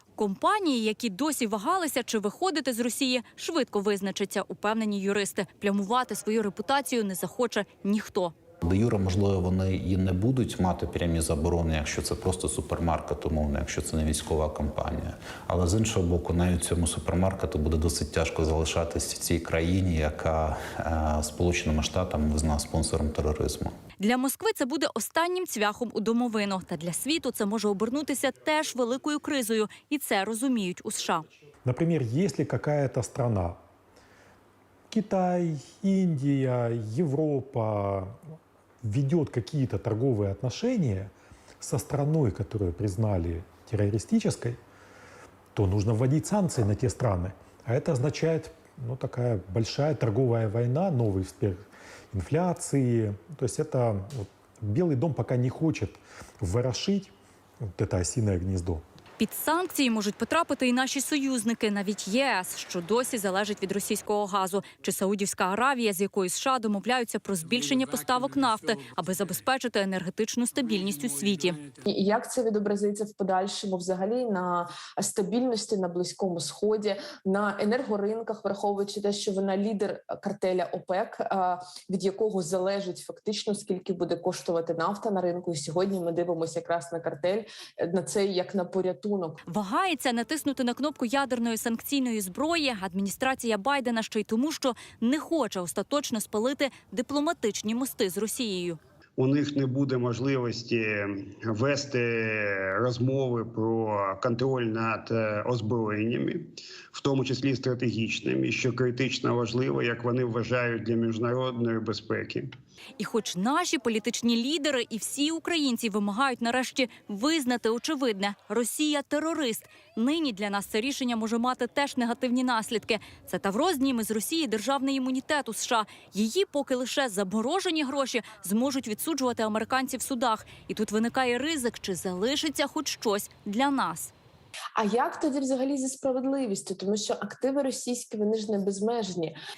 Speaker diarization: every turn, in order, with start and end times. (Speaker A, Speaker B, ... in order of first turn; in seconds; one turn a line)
Speaker A: 0.2-8.3
Speaker B: 8.6-23.7
Speaker A: 24.0-31.2
Speaker C: 31.6-33.6
Speaker C: 34.9-38.2
Speaker C: 38.8-44.6
Speaker C: 45.5-58.8
Speaker A: 59.2-71.6
Speaker D: 71.8-89.4
Speaker A: 89.5-98.8
Speaker E: 99.2-112.5
Speaker A: 113.0-134.1
Speaker D: 134.8-139.3